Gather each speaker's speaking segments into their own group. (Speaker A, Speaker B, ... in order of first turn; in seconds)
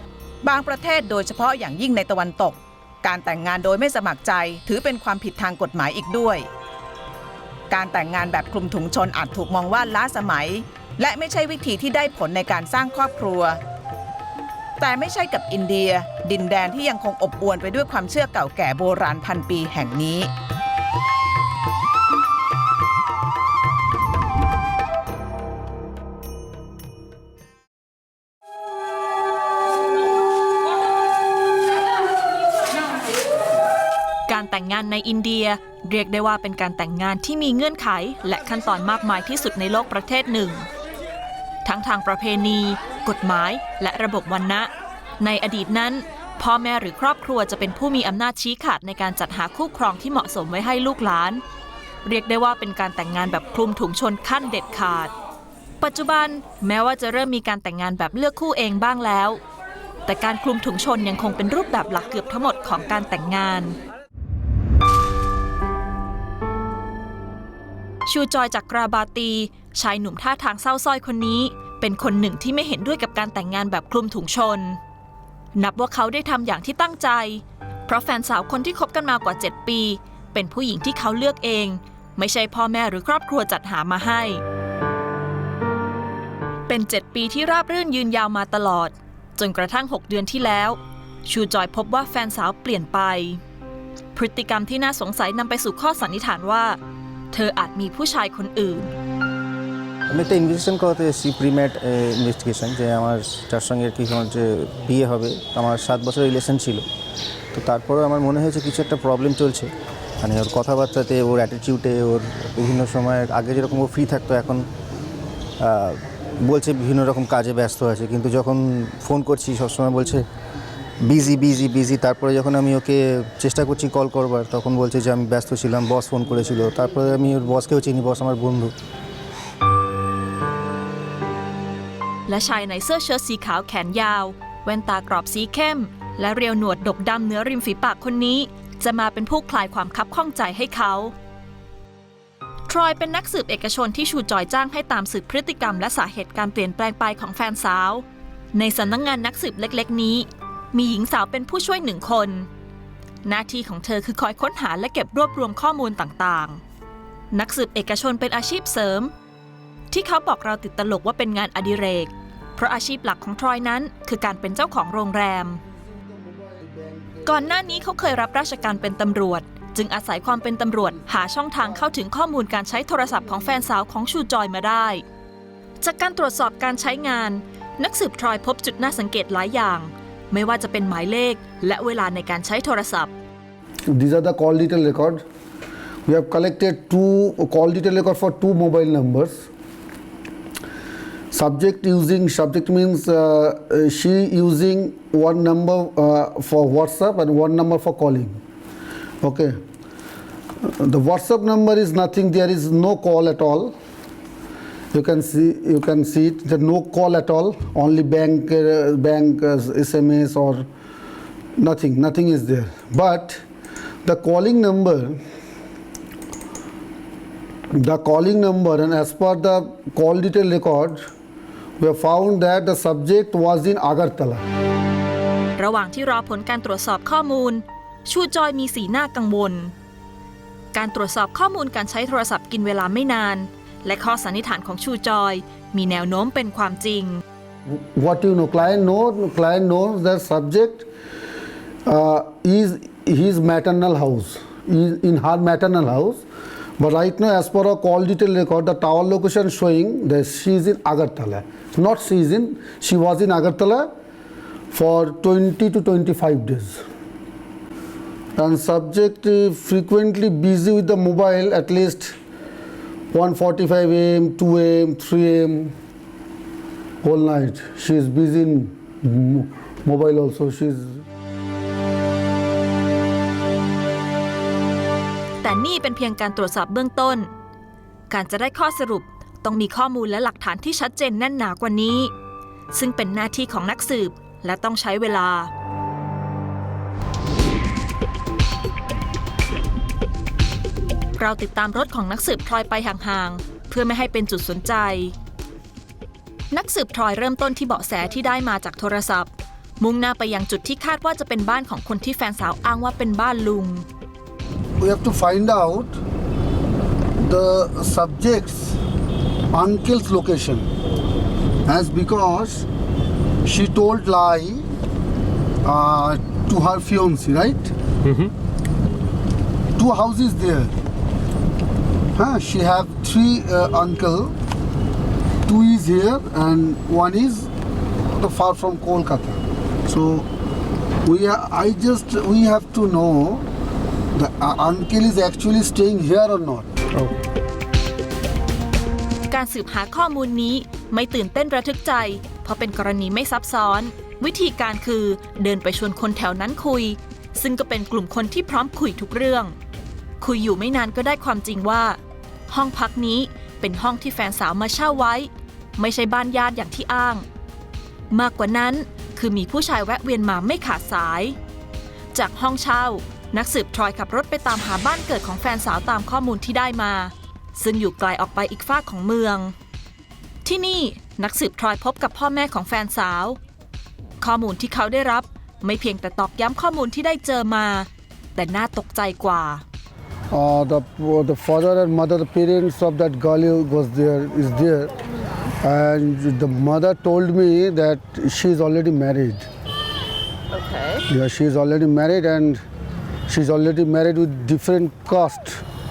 Speaker A: 0.4-6.4, 7.7-13.6, 14.8-20.3
Speaker B: 34.3-40.7, 41.6-51.4, 52.0-55.1, 55.8-59.4, 60.0-63.8, 68.0-74.8, 75.5-84.4, 86.7-93.4, 94.1-96.8, 97.3-98.9, 132.3-141.1, 142.7-152.5, 153.2-156.6, 157.3-159.1, 159.9-165.6, 167.2-175.0, 175.8-183.1, 225.6-229.7, 230.7-237.2, 275.4-277.3, 278.1-282.1, 282.7-285.5, 291.1-295.1, 296.5-303.9, 339.3-349.5, 350.2-357.2, 358.1-361.4, 362.1-369.5, 370.4-373.4, 374.2-379.6
Speaker C: 100.1-106.9, 107.5-109.7, 110.2-114.7, 115.6-120.2, 121.0-128.7
Speaker D: 165.7-167.7, 171.0-171.3, 183.9-185.2, 186.1-189.5, 191.3-198.4, 199.2-199.5, 200.7-203.7, 204.9-210.7, 211.6-213.4, 214.0-215.2, 217.8-221.0, 221.8-224.4, 237.7-240.9, 241.9-246.2, 246.8-253.9, 254.7-256.8, 258.4-262.1, 263.1-265.7, 267.0-271.0, 304.8-305.9, 307.2-308.7, 309.5-310.7, 311.7-312.7, 313.4-314.6, 315.6-317.7, 319.8-320.7, 322.1-324.3, 325.5-327.5, 328.1-330.3, 331.1-333.4, 334.1-337.1, 380.3-384.9, 385.6-389.4, 391.1-392.6, 393.3-395.6